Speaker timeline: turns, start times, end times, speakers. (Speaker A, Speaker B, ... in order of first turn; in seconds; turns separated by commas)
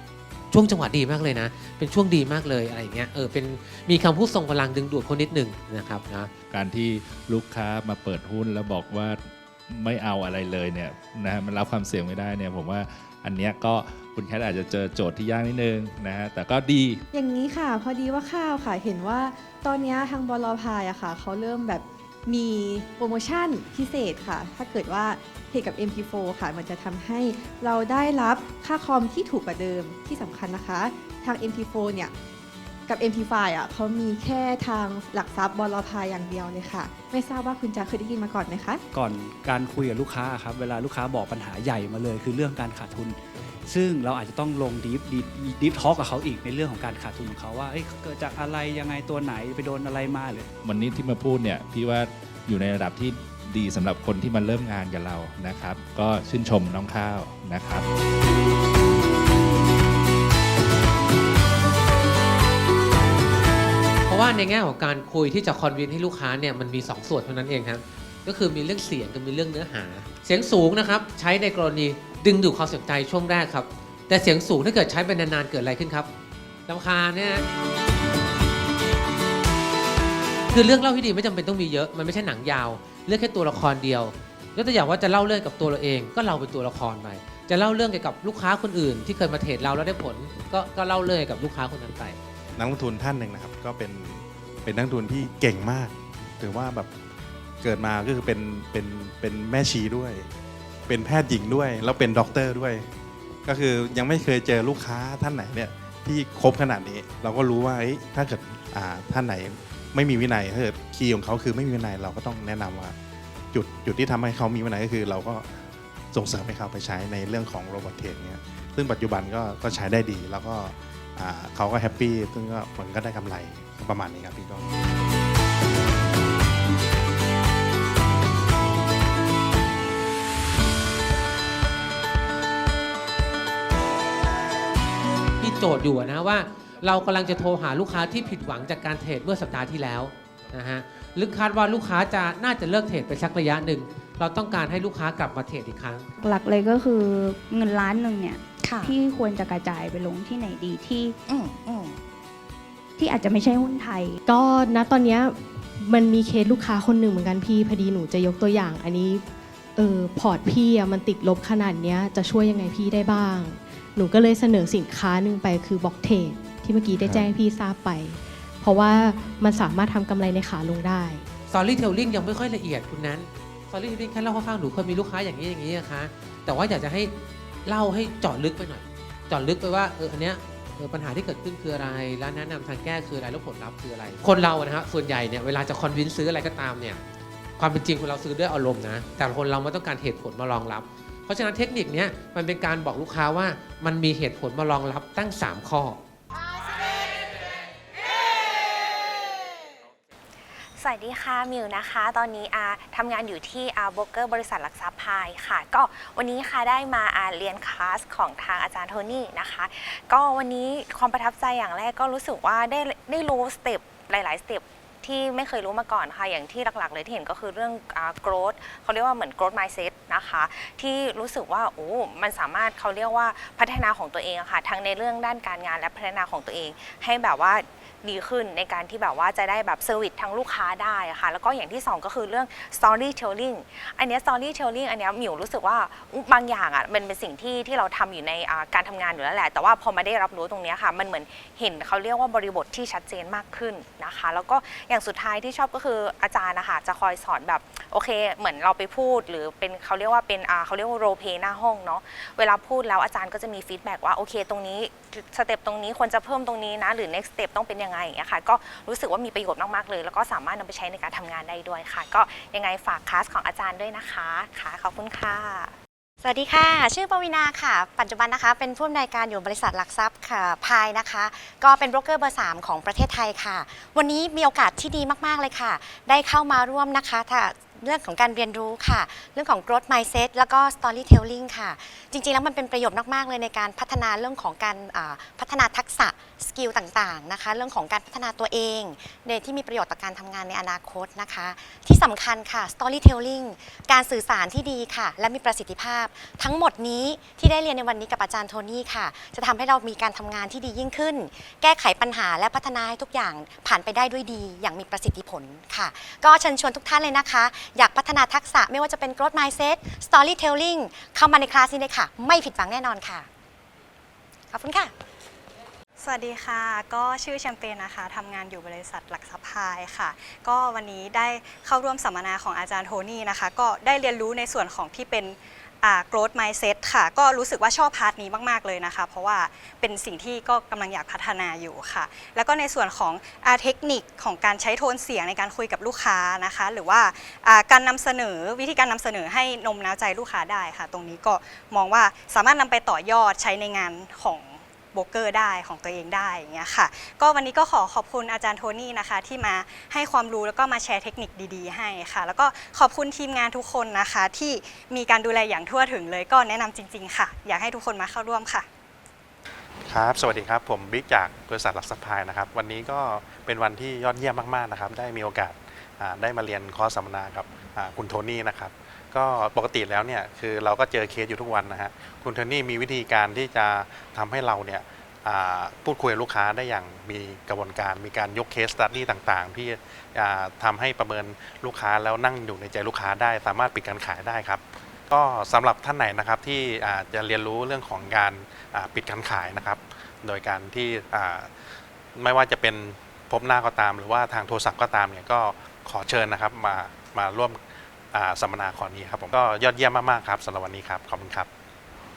Speaker A: 0.5-6.3, Speaker B: 6.5-17.0, Speaker C: 17.1-32.1, Speaker C: 32.9-38.8, Speaker D: 38.9-50.5, Speaker B: 50.6-57.9, Speaker A: 64.1-76.1, Speaker A: 76.7-77.4, Speaker A: 80.5-92.2, Speaker E: 92.6-96.9, Speaker E: 97.6-100.3, Speaker E: 100.9-102.9, Speaker E: 103.5-113.0, Speaker E: 113.5-115.5, Speaker E: 116.1-124.7, Speaker A: 135.4-146.1, Speaker F: 146.2-151.2, Speaker G: 148.6-148.9, Speaker G: 151.3-152.0, Speaker F: 153.1-153.9, Speaker H: 154.3-159.2, Speaker H: 159.8-171.2, Speaker A: 171.5-177.1, Speaker A: 177.7-187.0, Speaker A: 187.6-196.0, Speaker I: 200.8-265.7, Speaker G: 266.2-313.3, Speaker G: 314.5-314.9, Speaker J: 316.0-358.7, Speaker E: 359.9-391.5, Speaker E: 392.2-397.6, Speaker E: 398.1-401.5